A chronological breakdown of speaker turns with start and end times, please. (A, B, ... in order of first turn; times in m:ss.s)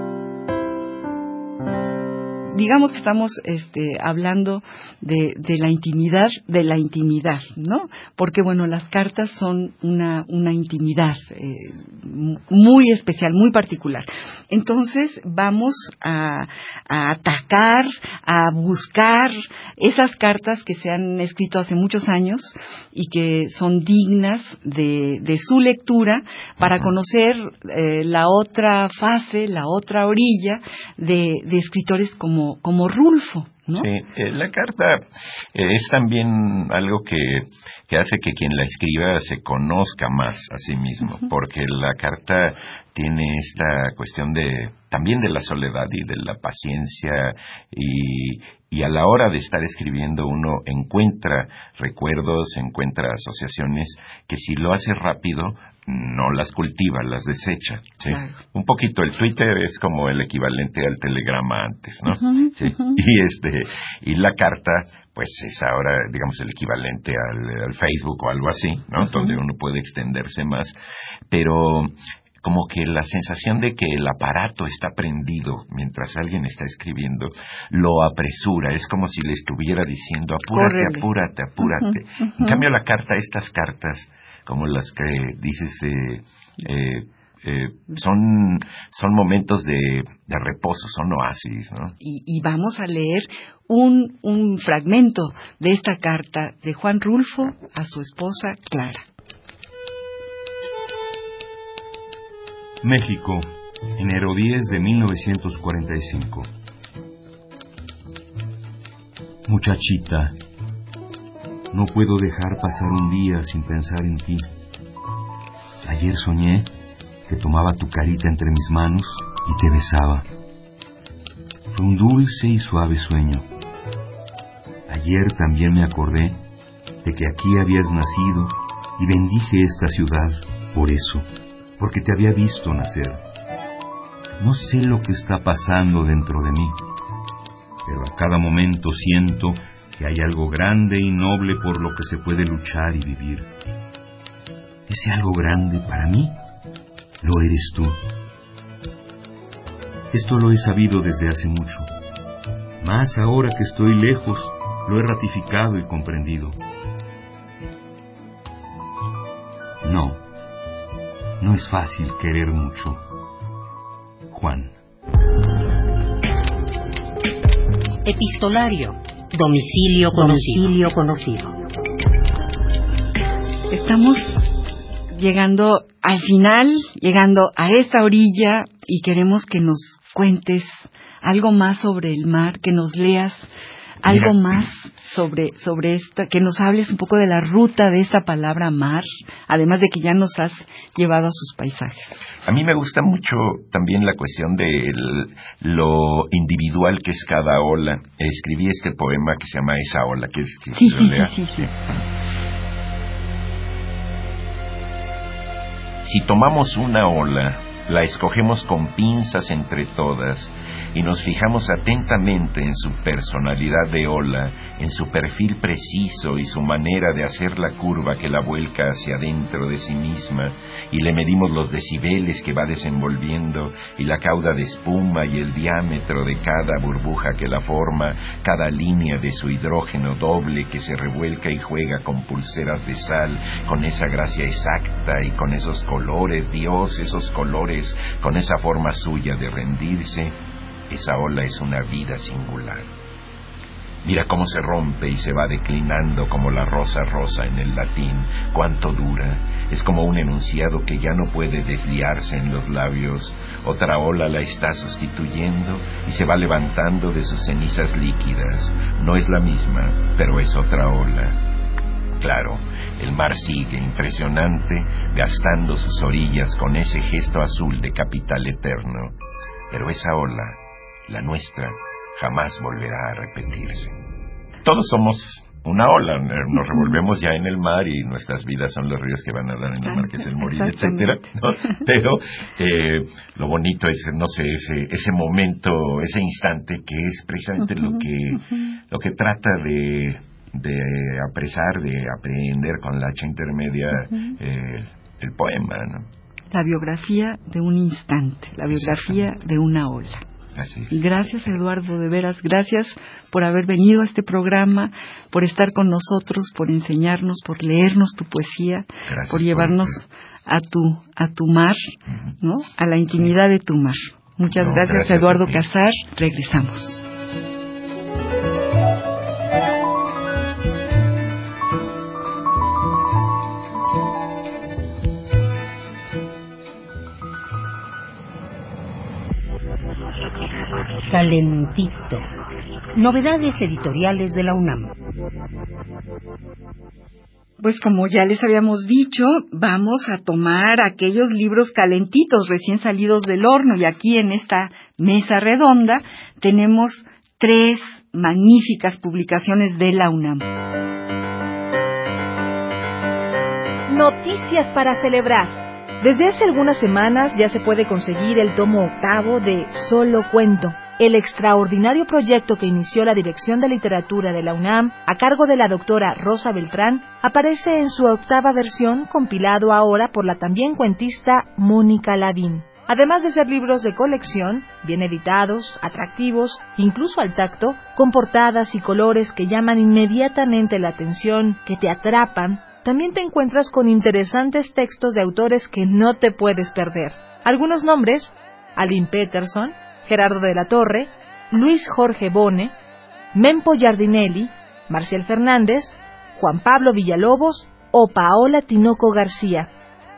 0:02.6-0:33.9 A
0:33.8-1:10.8 B
0:58.1-0:58.4 A
1:11.3-1:32.0 B
1:20.5-1:21.1 A
1:22.4-1:22.6 A
1:32.0-1:39.0 A
1:42.8-1:46.5 C
1:49.5-1:50.4 C
1:51.7-1:54.5 C
1:55.8-1:56.7 C
1:57.3-2:00.3 C
2:01.7-2:03.4 C
2:04.9-2:06.4 C
2:07.0-2:11.3 C
2:11.8-2:13.2 C
2:14.4-2:16.8 C
2:17.9-2:23.5 C
2:24.9-2:26.4 C
2:27.2-2:28.0 C
2:30.1-2:31.9 C
2:32.8-2:36.6 C
2:39.8-2:40.2 C
2:41.4-2:43.0 C
2:44.3-2:44.7 C
2:48.0-2:51.6 D
2:53.7-2:54.5 A
2:55.1-3:03.5 A
3:04.0-3:12.2 A
3:04.1-3:04.6 B
3:12.4-3:21.7 B
3:20.8-3:21.7 A
3:26.0-4:00.4 B
4:00.9-4:02.9 B
4:04.0-4:21.4 B
4:22.2-4:29.2 B
4:29.7-4:34.0 B
4:34.6-4:56.1 B
4:39.9-4:41.4 A
4:56.5-5:00.2 A
4:58.7-4:59.1 B
5:00.6-5:01.1 B
5:00.9-5:17.0 A
5:09.1-5:10.0 B
5:14.6-5:15.6 B
5:31.1-5:32.2 D
5:33.0-5:34.9 D
5:37.6-5:50.4 A
5:53.9-6:32.7 E
6:33.3-6:39.7 E